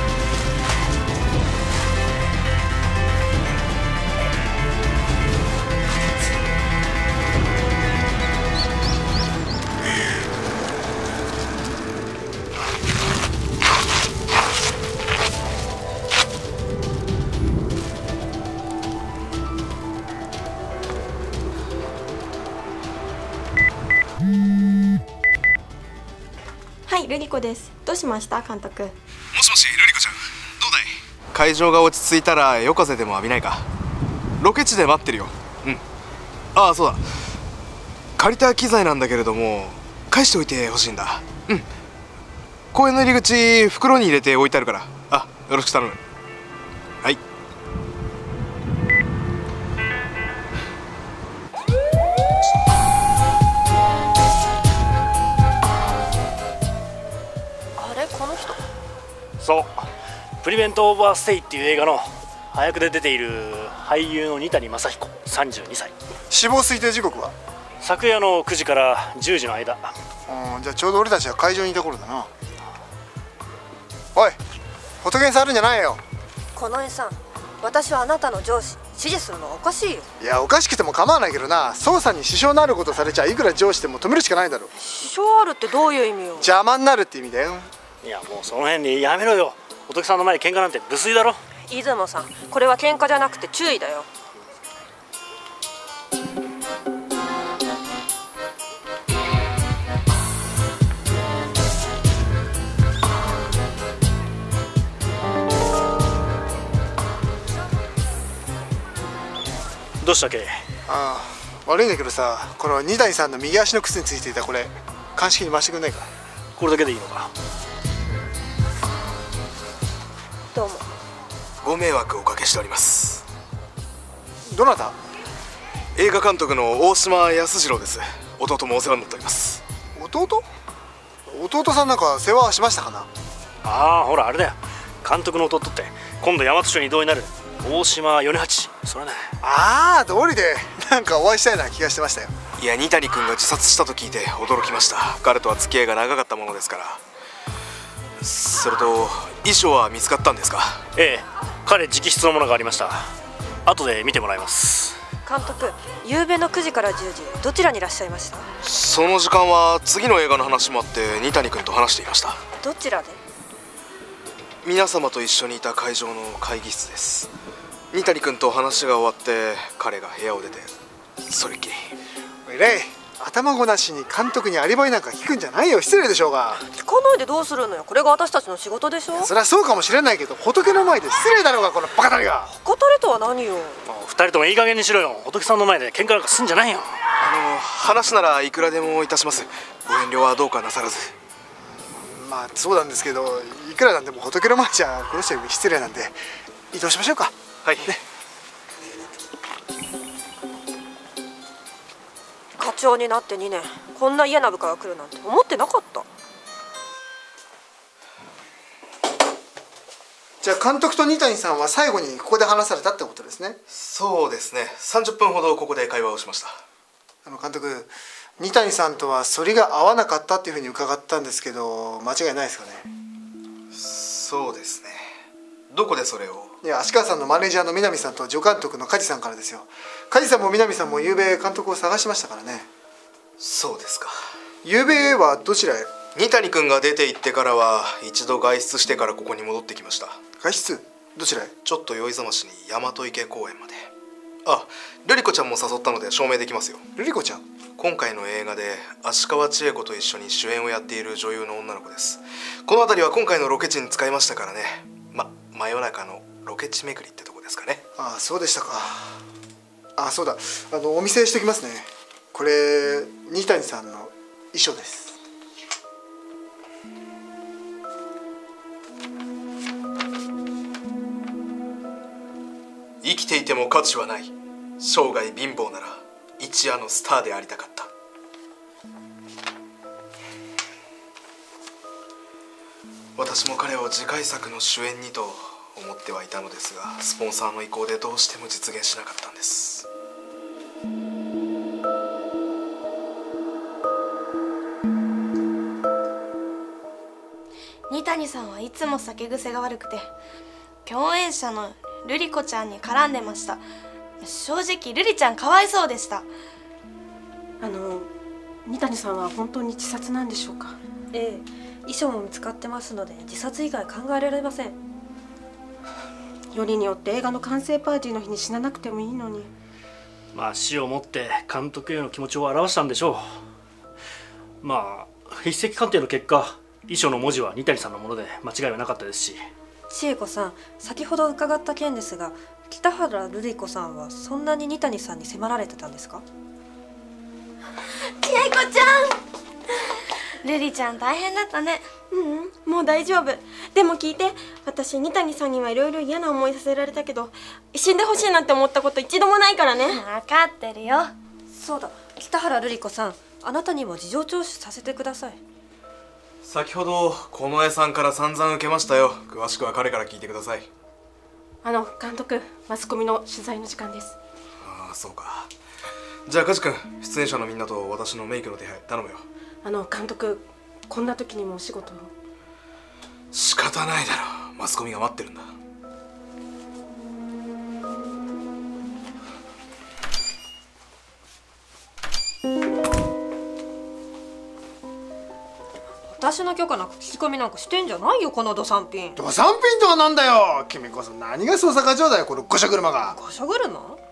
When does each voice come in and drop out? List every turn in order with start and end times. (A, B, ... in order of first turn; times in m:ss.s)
0:26.9-0:28.9 A
0:29.3-0:33.7 B
0:34.4-0:35.8 B
0:36.5-0:37.0 B
0:38.2-0:41.7 B
0:42.7-0:46.0 B
0:57.8-0:58.6 C
0:59.4-0:59.9 D
1:00.4-1:05.9 D
1:06.3-1:07.3 E
1:07.8-1:09.9 D
1:10.3-1:12.3 E
1:15.0-1:16.0 E
1:16.5-1:20.1 C
1:20.2-1:24.7 E
1:24.8-1:26.5 C
1:26.4-1:27.7 E
1:28.0-1:31.4 D
1:31.7-1:34.1 C
1:50.0-1:50.5 D
1:50.9-1:56.1 E
1:56.6-1:57.3 D
2:00.5-2:00.8 C
2:01.6-2:03.2 B
2:04.5-2:05.0 E
2:06.0-2:09.6 B
2:10.0-2:10.5 E
2:11.3-2:13.1 E
2:13.6-2:19.3 D
2:19.4-2:22.3 E
2:22.6-2:27.0 B
2:28.2-2:30.8 B
2:31.0-2:33.1 D
2:33.6-2:35.0 D
2:35.2-2:38.5 C
2:38.6-2:42.4 B
2:42.6-2:43.2 C
2:44.6-2:47.3 B
2:47.9-2:50.7 B
2:51.2-2:51.9 B
2:52.4-2:56.6 E
2:56.7-2:59.3 C
2:59.1-3:02.5 E
3:02.5-3:03.8 C
3:03.9-3:07.0 D
3:07.2-3:11.1 B
3:12.0-3:16.2 E
3:16.7-3:18.0 E
3:17.6-3:17.9 B
3:22.6-3:26.1 C
3:30.4-3:33.6 E
3:33.7-3:36.6 B
3:37.2-3:42.9 E
3:43.7-3:45.1 B
3:45.7-3:46.5 B
3:46.6-3:52.7 E
3:53.4-3:54.1 B
3:54.6-3:56.0 E
3:56.1-4:00.2 B
4:00.4-4:01.5 E
4:01.6-4:03.9 B
4:04.4-4:06.8 B
4:07.0-4:07.4 E
4:07.8-4:17.8 B
4:18.0-4:19.2 E
4:20.0-4:25.2 E
4:33.0-4:37.9 B
4:43.2-4:49.9 B
4:57.9-5:00.1 F
5:00.8-5:03.6 F
5:04.2-5:06.3 F
5:07.6-5:08.1 G
5:08.6-5:10.8 G
5:11.1-5:14.8 C
5:16.5-5:19.5 G
5:20.3-5:23.2 D
5:24.6-5:29.4 D
5:29.9-5:36.2 C
5:38.2-5:39.1 F
5:40.4-5:41.9 F
5:42.1-5:50.0 A
5:49.9-5:51.1 F
5:51.5-5:55.4 C
5:56.4-6:00.7 B
6:01.6-6:04.2 G
6:04.6-6:05.5 B
6:06.3-6:09.3 B
6:09.6-6:12.1 G
6:13.3-6:15.5 B
6:26.1-6:29.2 C
6:29.2-6:33.2 E
6:33.1-6:34.0 C